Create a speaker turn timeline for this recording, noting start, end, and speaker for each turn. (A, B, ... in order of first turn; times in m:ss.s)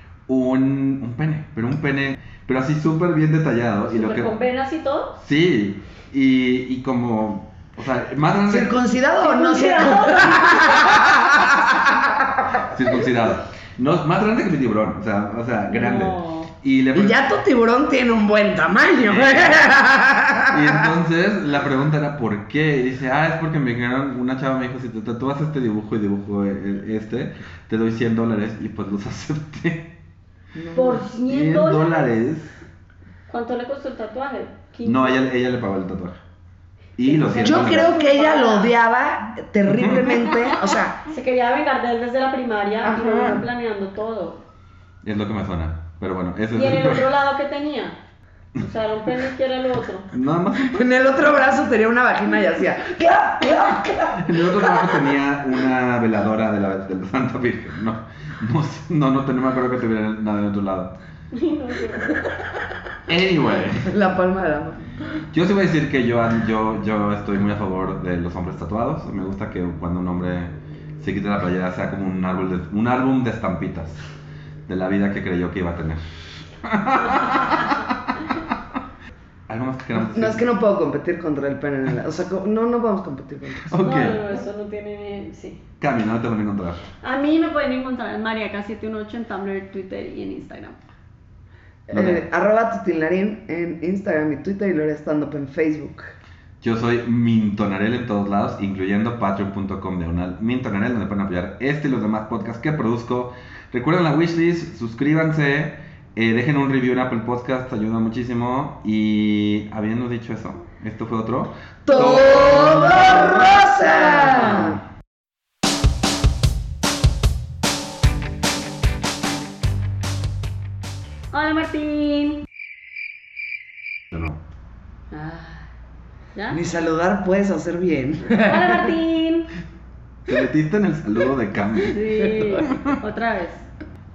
0:00.3-0:04.3 A
0:03.8-0:05.2 B
0:05.2-0:08.8 A
0:08.5-0:12.6 C
0:09.2-0:11.1 B
0:12.7-0:17.2 A
0:15.7-0:16.5 B
0:17.0-0:20.9 C
0:19.0-0:19.7 A
0:20.5-0:29.9 A
0:30.6-0:31.0 C
0:30.7-0:32.1 B
0:31.0-0:32.6 A
0:33.3-0:35.2 B
0:34.8-0:36.2 A
0:37.0-0:37.9 A
0:37.0-0:38.7 B
0:37.4-0:41.0 C
0:39.7-0:40.6 A
0:41.1-0:44.4 B
0:42.8-0:43.4 C
0:45.0-0:47.1 A
0:46.5-0:48.0 B
0:48.6-0:50.1 B
0:50.1-0:51.6 A
0:50.6-0:55.1 C
0:54.2-1:01.0 A
1:01.3-1:02.2 B
1:03.1-1:03.9 A
1:03.9-1:04.8 C
1:05.3-1:14.0 A
1:14.7-1:16.0 A
1:16.6-1:18.5 A
1:17.2-1:17.6 B
1:19.5-1:20.4 A
1:19.9-1:23.7 C
1:23.7-1:24.3 A
1:23.8-1:25.6 B
1:25.8-1:26.8 A
1:27.0-1:30.8 B
1:31.9-1:36.1 C
1:31.9-1:32.2 A
1:36.6-1:54.8 A
1:51.9-1:54.8 C
1:52.0-1:52.8 B
2:01.3-2:02.4 B
2:04.1-2:04.4 A
2:05.1-2:05.7 B
2:06.4-2:06.6 B
2:06.5-2:08.9 C
2:08.4-2:09.5 B
2:10.3-2:12.9 A
2:11.8-2:13.6 B
2:12.4-2:12.6 C